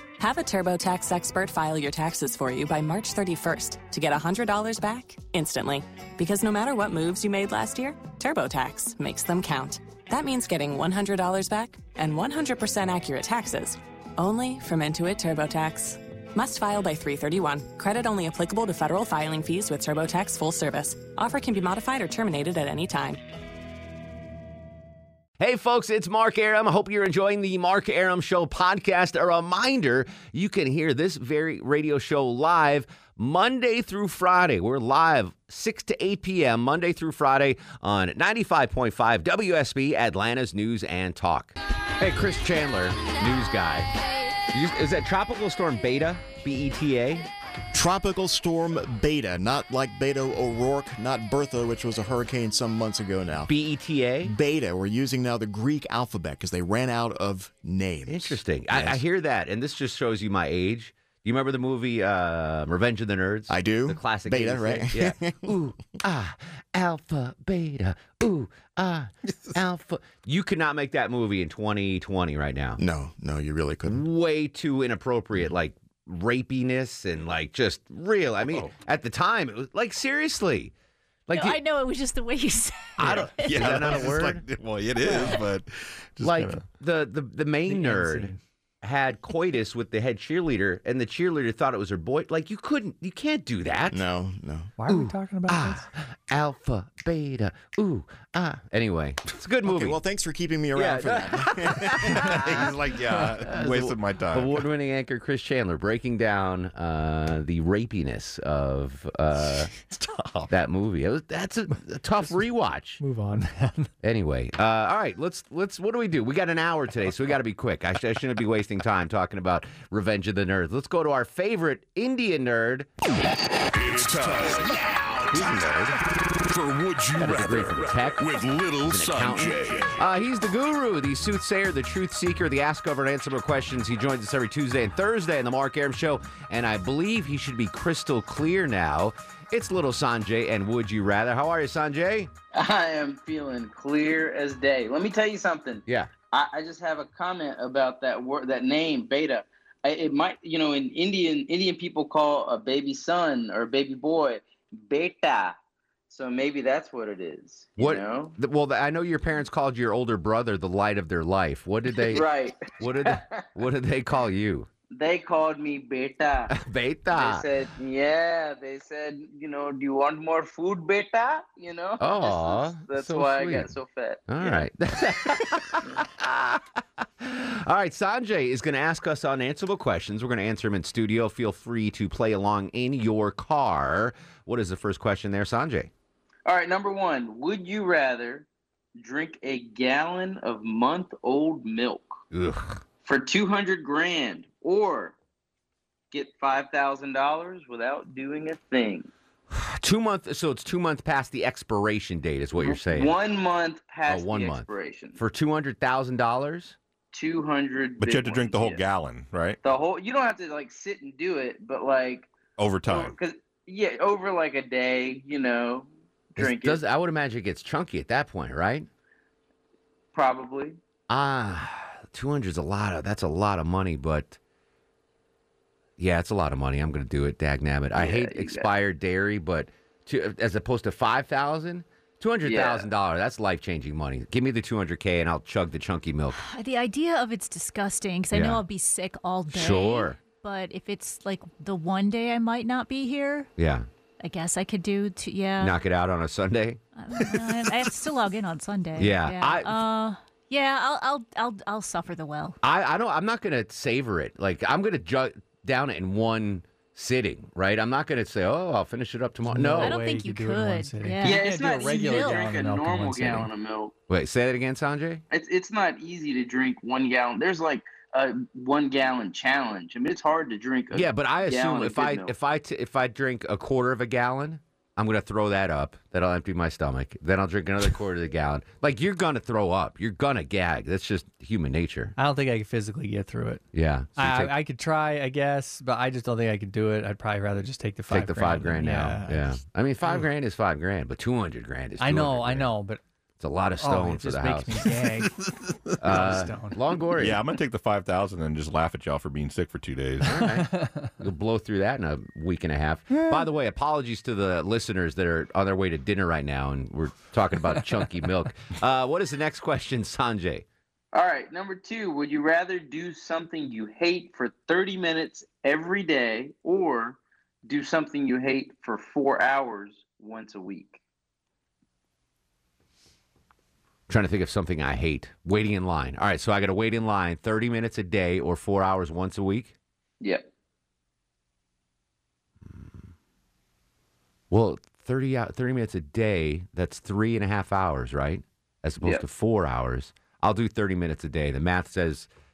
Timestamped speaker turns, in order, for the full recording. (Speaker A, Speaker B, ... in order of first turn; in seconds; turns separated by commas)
Speaker A: 0.2-23.2, Speaker B: 25.4-43.9, Speaker B: 44.5-47.3, Speaker C: 47.7-53.5, Speaker B: 53.5-54.4, Speaker C: 54.2-59.0, Speaker B: 58.1-72.8, Speaker C: 63.5-65.5, Speaker C: 72.8-74.0, Speaker B: 73.8-80.7, Speaker B: 81.3-81.6, Speaker D: 81.3-83.8, Speaker B: 83.0-84.4, Speaker E: 83.0-86.6, Speaker D: 85.1-85.4, Speaker B: 86.2-94.0, Speaker F: 87.7-88.4, Speaker C: 93.9-94.7, Speaker F: 94.8-95.9, Speaker B: 94.9-100.0, Speaker C: 99.6-102.6, Speaker B: 100.7-109.7, Speaker E: 102.1-104.6, Speaker E: 109.7-110.5, Speaker B: 110.5-113.0, Speaker F: 113.0-113.9, Speaker B: 114.0-122.9, Speaker G: 123.8-125.4, Speaker B: 123.9-126.0, Speaker G: 126.3-129.9, Speaker B: 127.2-142.3, Speaker H: 142.5-155.6, Speaker H: 156.1-158.3, Speaker B: 157.8-164.7, Speaker H: 162.0-163.4, Speaker H: 164.9-166.6, Speaker B: 166.5-167.4, Speaker H: 167.1-174.7, Speaker B: 172.0-173.7, Speaker B: 174.3-185.9, Speaker H: 186.4-192.2, Speaker B: 192.3-192.8, Speaker H: 193.0-195.2, Speaker H: 196.1-199.1, Speaker B: 199.5-203.1, Speaker H: 202.6-205.2, Speaker B: 204.1-204.7, Speaker B: 205.2-206.8, Speaker H: 207.1-208.8, Speaker E: 208.0-209.6, Speaker H: 209.6-212.3, Speaker E: 212.6-213.1, Speaker H: 212.8-216.8, Speaker B: 216.4-218.9, Speaker H: 220.1-220.8, Speaker B: 221.1-224.4, Speaker B: 226.0-236.4, Speaker H: 227.9-228.7, Speaker H: 232.4-232.8, Speaker D: 236.3-243.5, Speaker B: 238.3-238.6, Speaker B: 239.5-240.2, Speaker B: 243.6-243.9, Speaker D: 244.2-245.8, Speaker B: 245.6-246.8, Speaker D: 246.9-252.6, Speaker B: 248.9-249.8, Speaker B: 252.6-260.0, Speaker F: 259.5-263.5, Speaker D: 259.8-262.5, Speaker H: 261.2-263.9, Speaker B: 264.1-265.2, Speaker H: 265.3-272.3, Speaker B: 270.9-282.1, Speaker F: 282.2-283.6, Speaker B: 283.7-284.6, Speaker F: 284.2-289.5, Speaker B: 288.1-292.7, Speaker F: 292.0-293.0, Speaker B: 293.4-294.8, Speaker F: 293.8-295.4, Speaker E: 295.5-296.0, Speaker B: 296.0-297.4, Speaker F: 296.0-296.8, Speaker E: 297.2-300.4, Speaker B: 300.2-310.6, Speaker F: 300.4-301.1, Speaker H: 311.1-321.0, Speaker B: 324.1-329.7, Speaker H: 330.2-330.4, Speaker B: 334.5-342.3